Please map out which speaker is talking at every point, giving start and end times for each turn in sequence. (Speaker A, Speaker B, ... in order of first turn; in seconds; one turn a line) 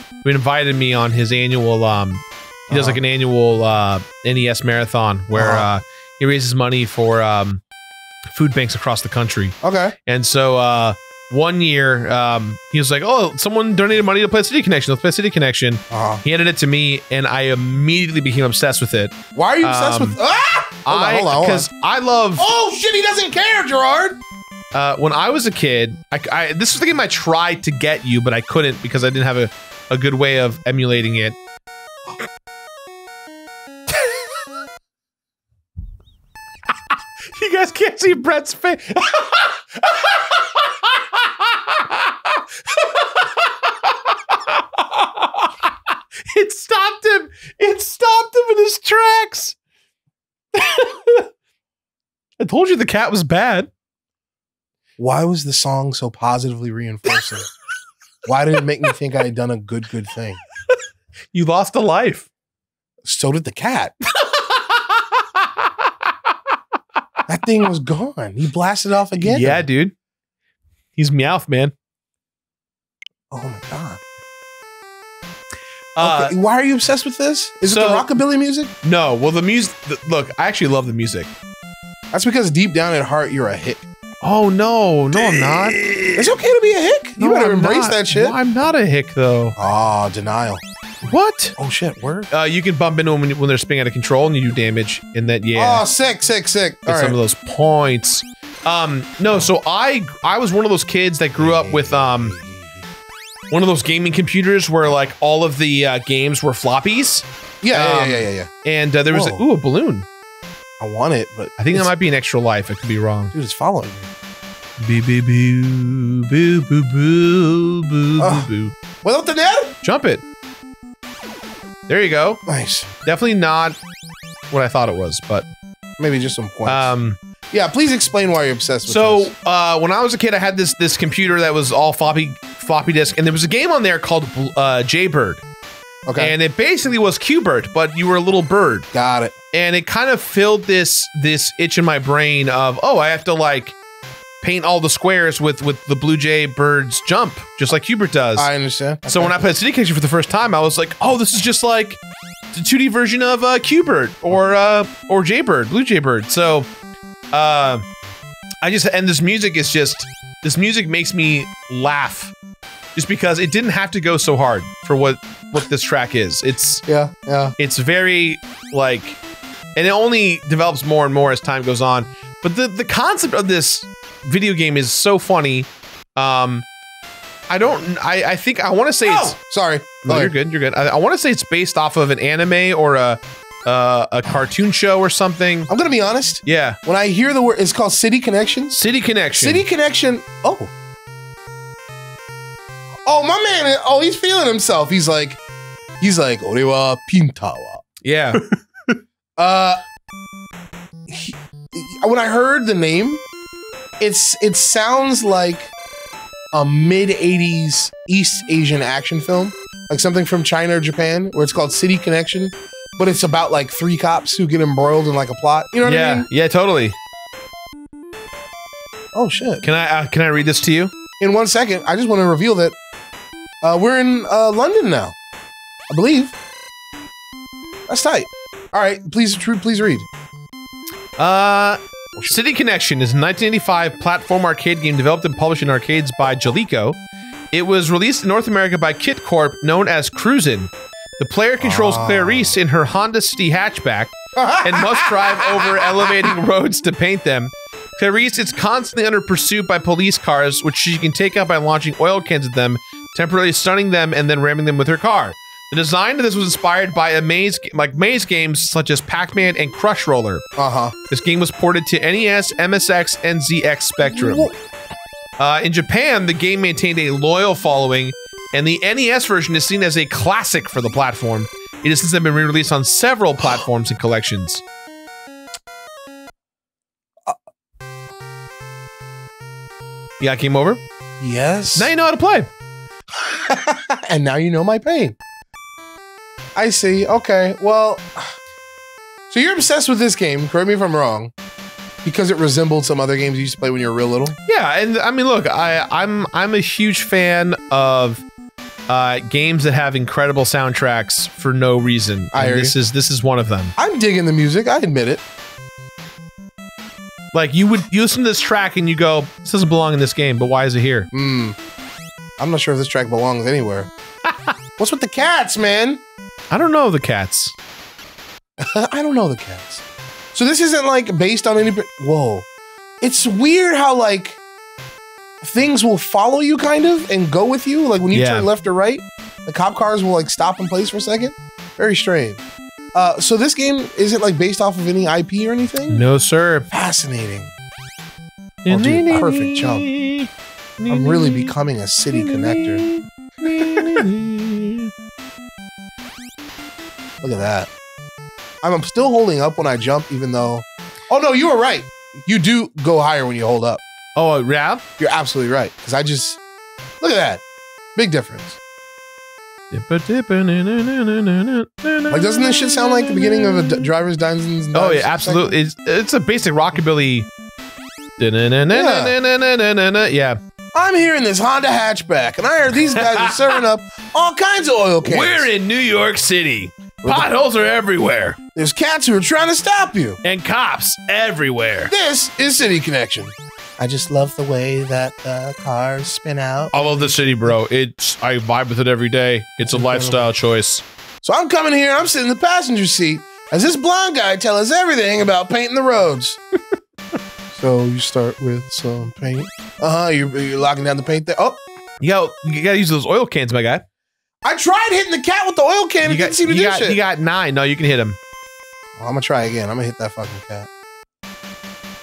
Speaker A: 0.2-7.6
Speaker B: 2.7-3.0
Speaker B: 5.3-5.7
Speaker A: 8.3-20.2
Speaker B: 9.6-9.9
Speaker B: 15.9-16.2
Speaker B: 19.4-21.7
Speaker A: 20.9-22.5
Speaker B: 22.4-24.2
Speaker A: 24.7-31.4
Speaker A: 37.3-45.5
Speaker A: 46.3-49.6
Speaker A: 50.5-51.3
Speaker A: 52.4-53.7
Speaker B: 55.0-57.5
Speaker B: 58.3-60.4
Speaker A: 61.3-62.3
Speaker B: 63.0-63.9
Speaker A: 64.2-65.7
Speaker B: 67.3-69.6
Speaker A: 69.2-69.9
Speaker A: 71.0-71.7
Speaker B: 73.3-74.0
Speaker A: 76.0-76.4
Speaker B: 76.0-78.7
Speaker A: 77.7-78.1
Speaker A: 78.8-81.3
Speaker B: 82.1-83.9
Speaker A: 84.2-86.1
Speaker B: 86.2-88.4
Speaker A: 87.2-89.6
Speaker B: 89.6-90.6
Speaker A: 91.0-91.6
Speaker B: 91.6-92.3
Speaker A: 92.3-95.8
Speaker B: 95.5-97.2
Speaker A: 96.9-102.4
Speaker B: 101.4-102.8
Speaker A: 103.5-110.1
Speaker B: 107.6-108.5
Speaker B: 109.1-109.4
Speaker B: 110.8-111.9
Speaker A: 111.6-113.3
Speaker B: 113.3-114.1
Speaker A: 114.8-118.8
Speaker B: 118.2-118.5
Speaker B: 119.0-119.7
Speaker A: 119.8-120.2
Speaker A: 121.9-122.4
Speaker B: 122.5-122.9
Speaker A: 123.0-123.8
Speaker A: 124.5-125.5
Speaker B: 126.0-126.9
Speaker A: 126.7-127.2
Speaker B: 127.5-129.3
Speaker A: 128.9-135.4
Speaker B: 136.1-136.3
Speaker A: 136.2-138.9
Speaker B: 138.9-139.3
Speaker A: 139.5-143.8
Speaker A: 144.4-148.5
Speaker B: 148.3-149.4
Speaker A: 149.1-152.0
Speaker A: 152.5-156.7
Speaker A: 157.3-157.9
Speaker A: 158.6-162.3
Speaker A: 162.9-166.8
Speaker B: 166.9-167.6
Speaker A: 167.6-169.2
Speaker A: 169.8-176.7
Speaker A: 177.5-179.4
Speaker B: 179.0-180.3
Speaker A: 180.1-185.7
Speaker B: 185.7-188.8
Speaker A: 186.4-186.8
Speaker A: 188.8-189.7
Speaker B: 189.4-190.7
Speaker B: 193.1-195.4
Speaker B: 196.0-197.8
Speaker A: 198.0-198.4
Speaker B: 199.4-199.8
Speaker B: 201.1-203.2
Speaker B: 204.0-205.7
Speaker B: 206.5-216.3
Speaker A: 215.8-217.0
Speaker B: 219.1-219.6
Speaker A: 219.6-220.9
Speaker B: 221.2-222.8
Speaker B: 223.6-225.2
Speaker B: 225.9-226.3
Speaker B: 227.9-230.1
Speaker A: 231.2-237.0
Speaker A: 237.5-260.4
Speaker B: 241.6-242.6
Speaker B: 244.4-246.3
Speaker B: 260.6-260.9
Speaker A: 261.1-264.5
Speaker B: 264.1-264.5
Speaker A: 265.4-274.6
Speaker A: 280.2-280.8
Speaker B: 281.2-281.9
Speaker A: 281.8-282.5
Speaker B: 283.2-285.2
Speaker B: 286.6-288.4
Speaker B: 289.3-291.3
Speaker B: 292.0-294.4
Speaker A: 294.5-298.2
Speaker A: 298.9-303.7
Speaker B: 302.3-302.8
Speaker B: 303.8-305.2
Speaker A: 307.3-311.1
Speaker B: 311.1-311.6
Speaker B: 312.4-313.9
Speaker A: 314.3-314.5
Speaker B: 314.8-316.0
Speaker A: 316.5-317.6
Speaker B: 318.6-322.5
Speaker B: 323.0-324.4
Speaker B: 325.4-332.4
Speaker A: 328.1-328.5
Speaker B: 332.9-336.0
Speaker A: 335.9-336.7
Speaker B: 336.7-337.5
Speaker A: 338.6-341.5
Speaker B: 338.7-339.9
Speaker B: 340.9-342.9
Speaker A: 342.1-344.9
Speaker B: 343.6-344.0
Speaker B: 347.2-347.7
Speaker B: 348.6-353.8
Speaker A: 354.2-354.8
Speaker B: 355.0-356.4
Speaker B: 357.0-357.4
Speaker B: 358.0-358.6
Speaker A: 359.7-362.6
Speaker B: 362.1-365.6
Speaker A: 364.7-367.3
Speaker A: 368.2-370.4
Speaker B: 368.7-369.2
Speaker B: 370.7-375.5
Speaker A: 373.0-373.6
Speaker A: 375.0-378.4
Speaker B: 377.0-377.3
Speaker B: 378.6-380.2
Speaker A: 380.2-381.9
Speaker B: 381.9-387.1
Speaker A: 386.7-390.8
Speaker B: 389.7-390.3
Speaker B: 391.2-396.4
Speaker B: 397.5-401.6
Speaker A: 402.0-403.8
Speaker B: 404.4-407.0
Speaker A: 406.0-408.2
Speaker B: 409.0-410.7